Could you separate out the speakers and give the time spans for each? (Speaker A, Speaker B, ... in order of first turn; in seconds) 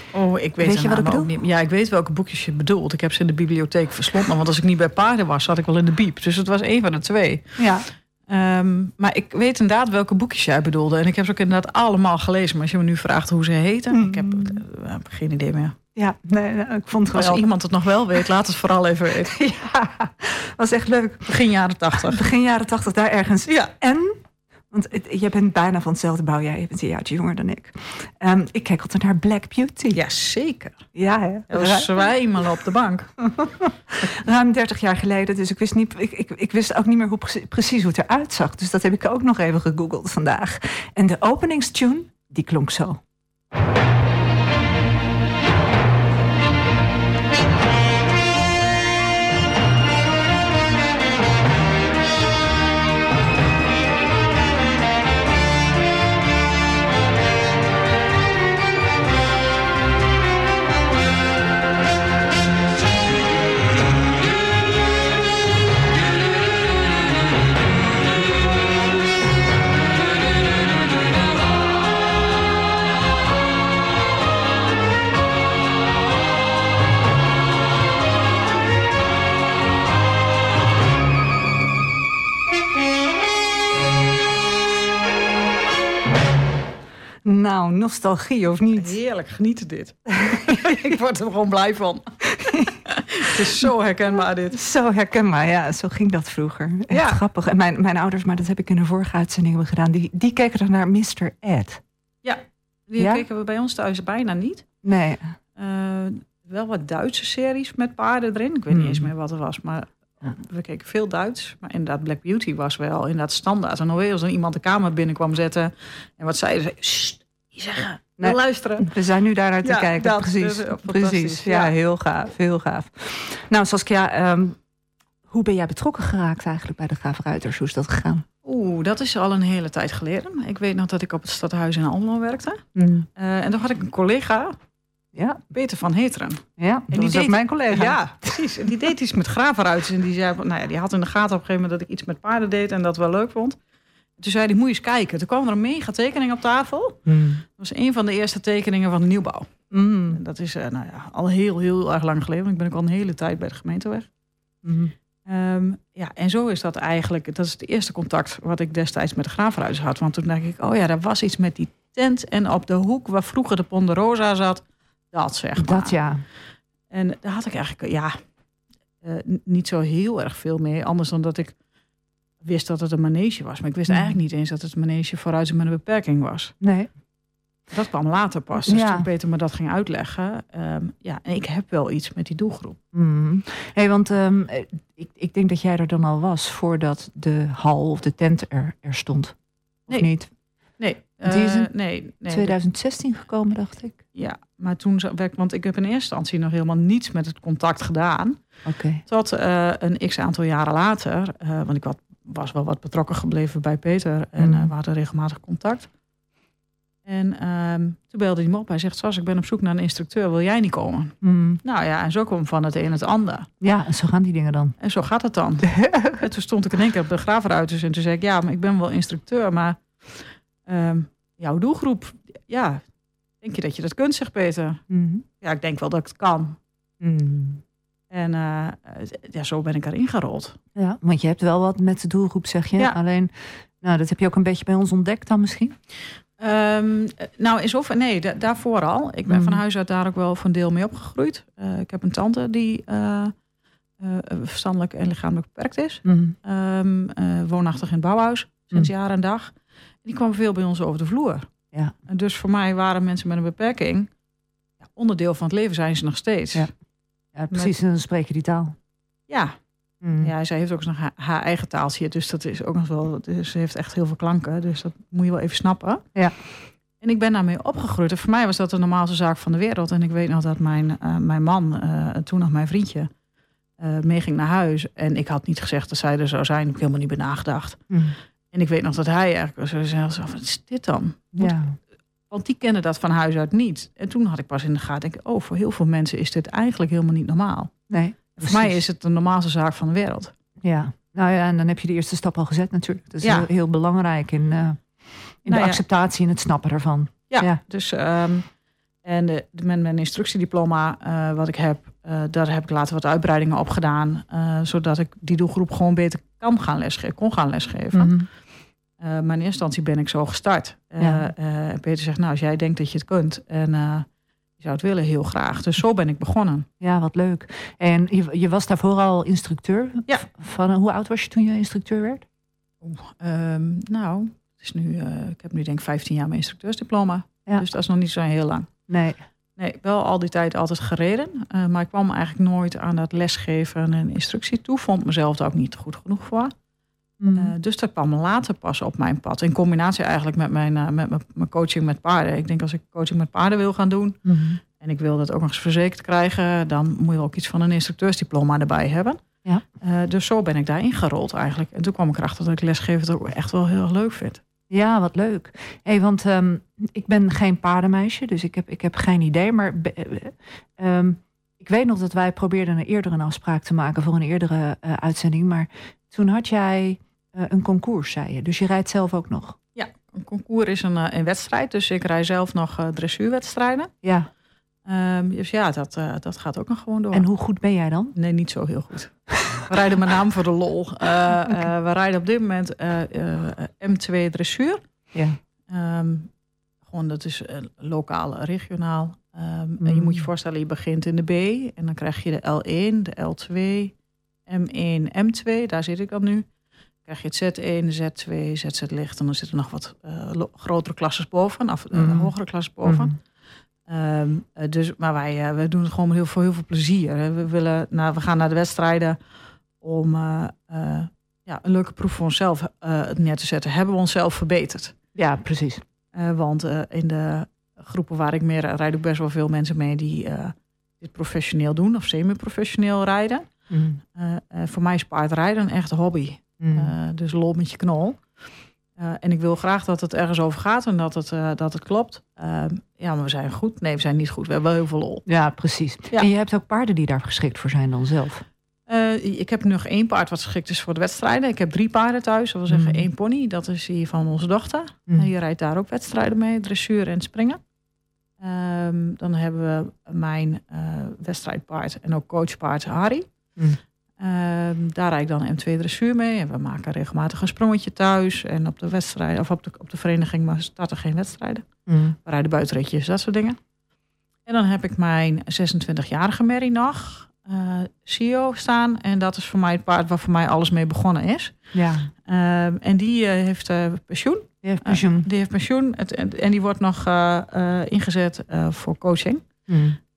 Speaker A: 0.1-15.8, 17.1-19.4, 21.3-22.2, 23.5-23.7, 29.9-30.9, 31.5-33.1, 88.8-94.6, 96.9-97.2, 102.2-104.7, 105.5-118.9, 119.6-121.7, 128.4-134.6, 135.5-143.6, 144.2-147.0, 147.6-149.5, 150.1-154.1, 155.2-165.9, 166.9-168.2, 169.0-171.6, 172.4-176.5, 177.7-182.8, 190.8-192.5, 194.1-198.4, 199.1-205.9, 207.0-213.5, 214.8-222.8, 223.4-224.8, 225.4-226.6, 228.1-230.6, 236.4-243.3, 244.0-251.5, 252.1-254.1, 254.8-256.7, 259.3-259.6, 260.2-266.0, 267.0-273.1, 273.8-277.8, 278.5-281.6, 282.3-287.7, 288.3-290.3, 293.2-293.5, 295.5-295.8, 297.3-298.4, 299.0-308.2, 309.0-316.6, 322.8-328.7, 329.6-336.5, 337.4-344.2, 344.7-349.2, 349.8-354.4, 369.7-373.9, 374.8-377.3, 378.1-384.8, 385.7-386.3, 386.9-393.9, 394.4-396.5, 397.0-403.2, 403.9-409.2, 409.8-414.9, 416.1-423.5, 424.1-428.4, 428.9-435.2, 438.9-447.6, 448.4-453.2, 454.2-461.7, 462.2-463.6, 464.4-471.7, 472.2-479.4
Speaker B: 0.6-1.3, 7.6-7.8, 13.9-14.6, 15.9-17.5, 19.3-21.3, 22.0-30.0, 30.9-31.9, 33.2-43.0, 87.2-89.0, 90.3-90.8, 92.4-92.7, 94.5-101.8, 103.0-103.2, 104.8-105.3, 108.7-109.1, 118.2-124.6, 125.3-128.2, 132.7-133.1, 135.1-135.4, 136.6-138.0, 147.1-147.4, 149.7-150.2, 154.6-154.9, 165.6-166.2, 173.9-174.2, 176.6-176.9, 178.6-179.1, 182.9-189.3, 189.9-190.3, 191.2-191.7, 192.2-194.0, 198.6-199.0, 204.4-204.7, 211.2-211.6, 213.6-214.8, 215.6-216.2, 224.9-225.2, 227.0-227.6, 230.7-235.8, 239.3-239.6, 246.0-246.3, 257.3-258.8, 260.0-260.3, 277.9-278.1, 281.4-281.8, 287.9-288.8, 290.6-297.6, 307.9-308.3, 311.0-311.3, 316.8-322.2, 328.9-329.2, 337.2-337.5, 344.2-344.6, 354.7-369.6, 374.0-374.3, 377.1-378.1, 385.1-385.4, 389.8-390.3, 401.9-402.3, 402.8-403.1, 415.1-415.8, 423.7-424.0, 426.6-426.9, 435.2-438.4, 442.7-443.1, 461.9-462.1, 471.7-472.1, 474.6-475.3, 479.7-480.0